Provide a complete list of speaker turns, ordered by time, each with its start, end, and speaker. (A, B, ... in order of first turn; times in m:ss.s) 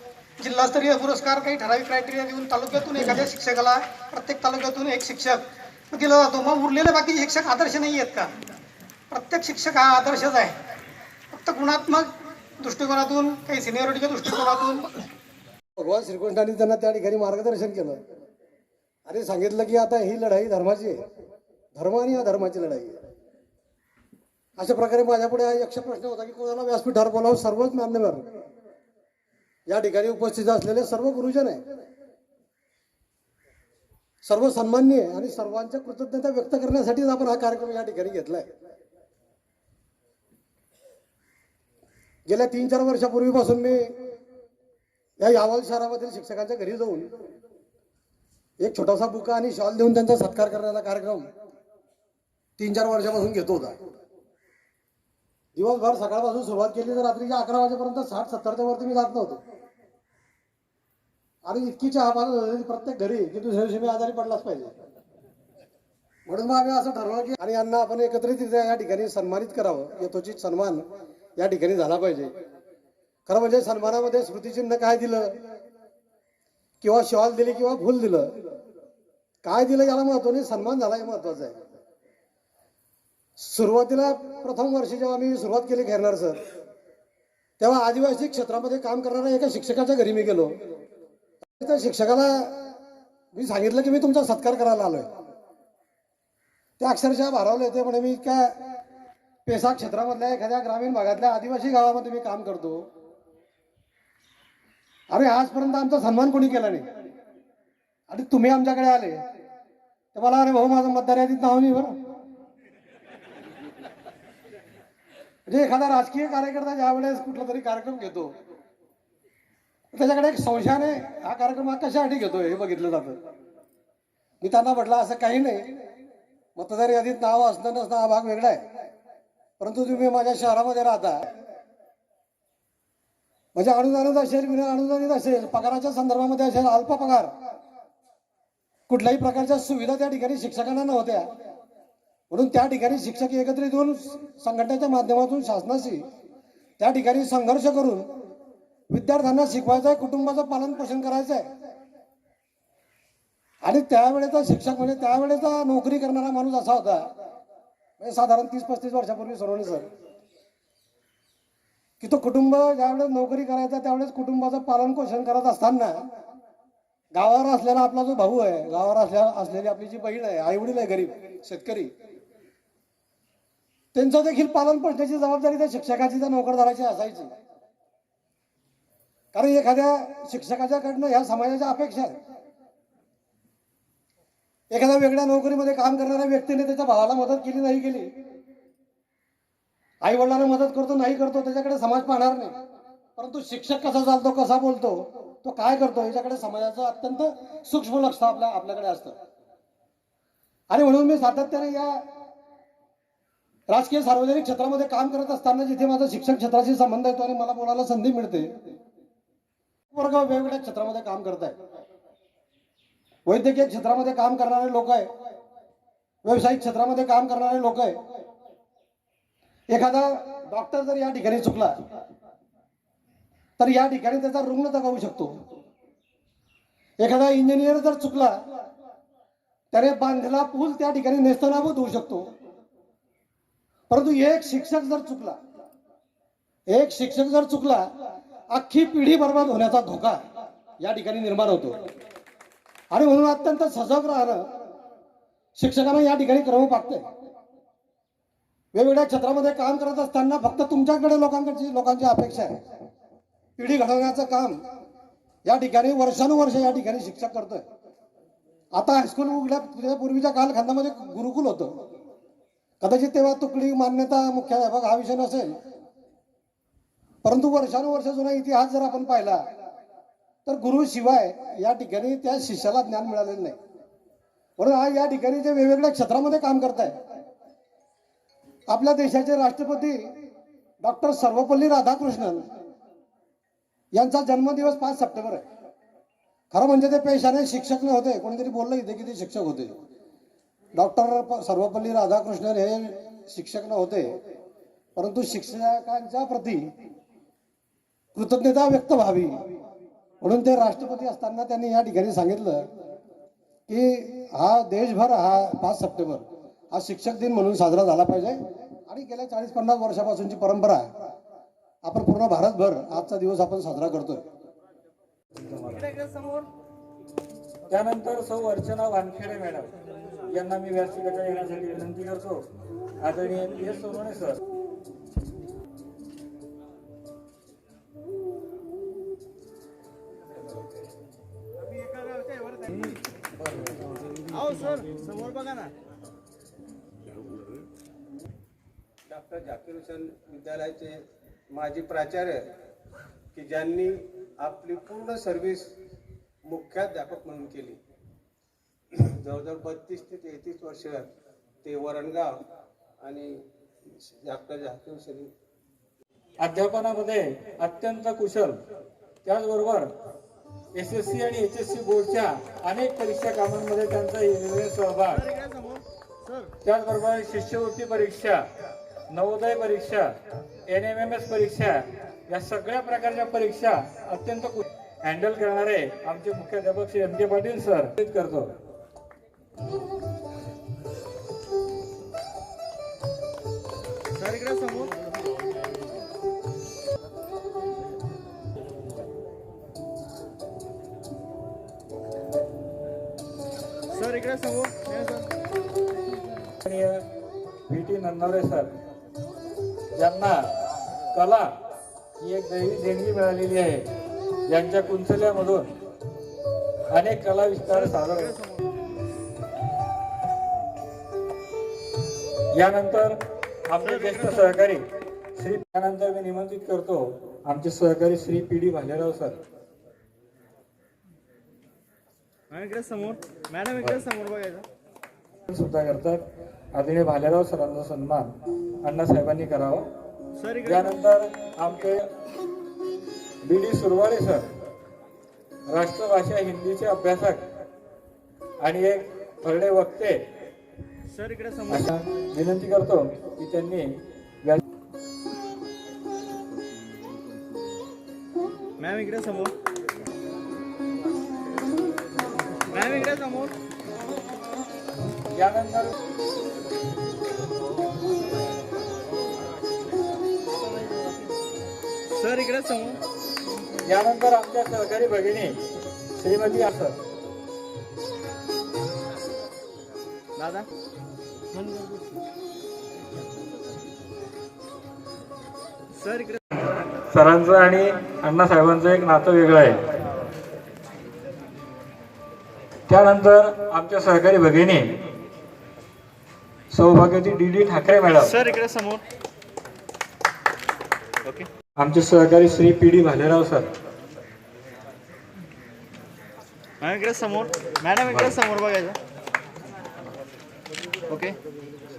0:00.4-0:08.3 A
0:09.1-0:10.6 A
0:11.3-0:12.1 A
0:12.6-0:14.9 A
0:15.8-0:18.0 B
0:19.1-0:21.0 B
0:21.8-0:23.0 B
0:24.6-0:28.3 B
0:29.7-0:31.6 B
0:34.2-0:38.5 B
0:42.3-0:43.9 B
0:45.2-0:47.1 B
0:48.6-0:51.3 B
0:52.6-0:53.8 B
0:55.6-0:59.4 B
1:01.4-1:04.7 B
1:06.3-1:10.9 B
1:11.4-1:12.3 B
1:13.3-1:15.4 B
1:16.8-1:18.4 B
1:19.4-1:21.6 B
1:23.4-1:26.4 B
1:27.6-1:30.6 B
1:31.6-1:32.5 B
1:33.3-1:35.1 B
1:36.8-1:38.6 B
1:39.5-1:42.9 B
1:45.1-1:46.8 B
1:48.1-1:49.2 B
1:50.1-1:51.9 B
1:55.5-1:58.3 B
1:59.9-2:03.2 B
2:04.4-2:05.7 B
2:06.6-2:08.6 B
2:09.6-2:11.3 B
2:13.6-2:17.3 B
2:18.9-2:21.3 B
2:22.3-2:26.0 B
2:26.8-2:28.1 B
2:28.9-2:31.5 B
2:33.6-2:37.0 B
2:38.0-2:39.8 B
2:42.0-2:46.0 B
2:47.2-2:51.9 B
2:53.9-2:57.3 B
2:59.3-3:02.1 B
3:04.7-3:08.1 B
3:10.0-3:12.5 B
3:13.2-3:19.2 B
3:20.7-3:22.0 B
3:23.7-3:28.5 B
3:29.9-3:31.6 B
3:33.3-3:35.1 B
3:36.2-3:38.0 B
3:39.7-3:41.7 B
3:43.6-3:45.3 B
3:47.0-3:48.4 B
3:49.7-3:52.3 B
3:53.9-3:55.4 B
3:56.7-3:57.8 B
3:58.5-4:00.2 B
4:00.8-4:01.8 B
4:02.9-4:04.4 B
4:05.6-4:07.0 B
4:08.7-4:12.5 B
4:13.6-4:14.6 B
4:15.5-4:17.6 B
4:18.7-4:21.8 B
4:22.8-4:25.6 B
4:27.2-4:29.4 B
4:30.5-4:33.6 B
4:34.6-4:37.0 B
4:38.7-4:40.1 B
4:40.8-4:42.4 B
4:44.0-4:45.4 B
4:46.5-4:49.7 B
4:50.8-4:54.2 B
4:55.0-4:56.7 B
4:58.2-4:59.4 B
5:00.2-5:02.7 B
5:03.7-5:10.9 B
5:11.8-5:14.2 B
5:15.3-5:15.9 C
5:15.8-5:16.5 D
5:17.7-5:19.7 C
5:20.3-5:22.4 C
5:23.0-5:24.4 C
5:32.1-5:32.9 D
5:34.3-5:35.7 D
5:39.1-5:42.5 E
5:43.3-5:45.7 E
5:46.4-5:47.8 E
5:48.9-5:51.1 E
5:51.6-5:52.4 E
5:53.0-5:55.3 E
5:56.4-5:58.6 C
5:59.2-5:59.9 C
6:00.8-6:05.2 C
6:05.1-6:06.5 D
6:06.6-6:08.5 C
6:09.1-6:10.1 C
6:10.7-6:18.5 C
6:24.1-6:25.0 D
6:33.9-6:35.3 D
6:36.6-6:37.0 C
6:37.7-6:38.7 C
6:40.0-6:40.5 C
6:41.1-6:41.5 C
6:42.2-6:43.9 C
6:44.5-6:45.7 C
6:46.9-6:48.3 C
6:47.7-6:48.6 D
6:52.5-6:59.4 C
6:53.8-6:54.5 D
7:02.5-7:04.7 D
7:05.5-7:06.2 C
7:06.7-7:09.9 C
7:10.4-7:10.9 D
7:10.6-7:12.1 C
7:13.4-7:14.5 C
7:15.7-7:17.4 C
7:18.6-7:20.2 C
7:21.1-7:21.9 D
7:21.7-7:24.6 C
7:28.8-7:29.5 D
7:32.7-7:33.5 D
7:35.3-7:36.0 C
7:42.1-7:43.0 D
7:43.8-7:45.6 C
7:46.2-7:47.0 C
7:50.4-7:50.7 D
7:56.0-7:56.4 D
7:57.1-7:59.8 C
8:02.9-8:05.0 C
8:06.7-8:08.3 C
8:08.2-8:09.0 D
8:11.8-8:13.7 C
8:16.8-8:19.0 D
8:21.1-8:21.4 D